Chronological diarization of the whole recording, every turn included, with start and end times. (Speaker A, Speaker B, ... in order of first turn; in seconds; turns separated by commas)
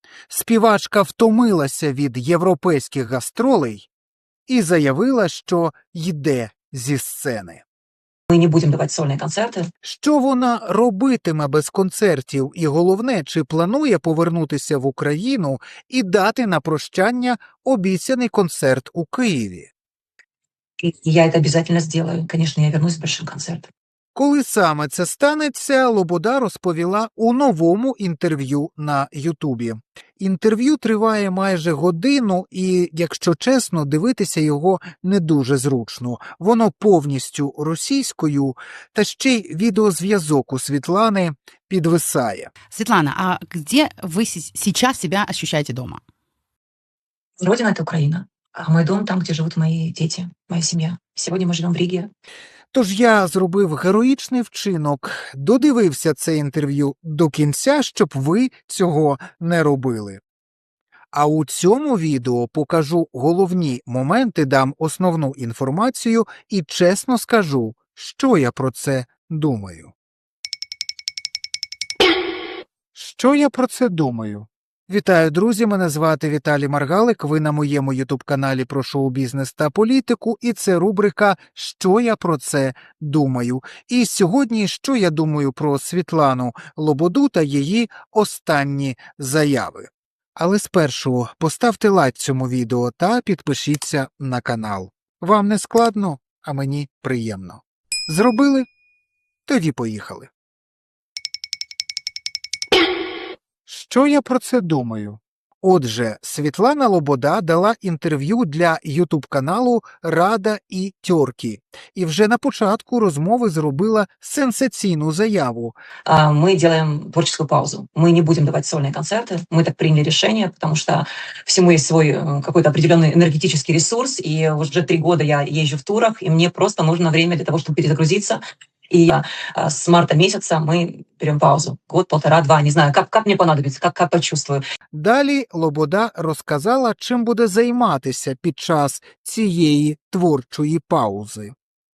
Speaker A: 0.3-3.9, Speaker A: 4.5-7.6, Speaker B: 8.3-9.7, Speaker A: 9.8-19.7, Speaker B: 20.8-23.7, Speaker A: 24.1-42.5, Speaker C: 42.7-46.0, Speaker B: 47.4-52.1, Speaker A: 52.7-60.2, Speaker A: 61.1-69.9, Speaker A: 73.0-98.7, Speaker A: 99.5-100.3, Speaker A: 103.7-115.8, Speaker B: 116.1-134.6, Speaker A: 134.9-141.5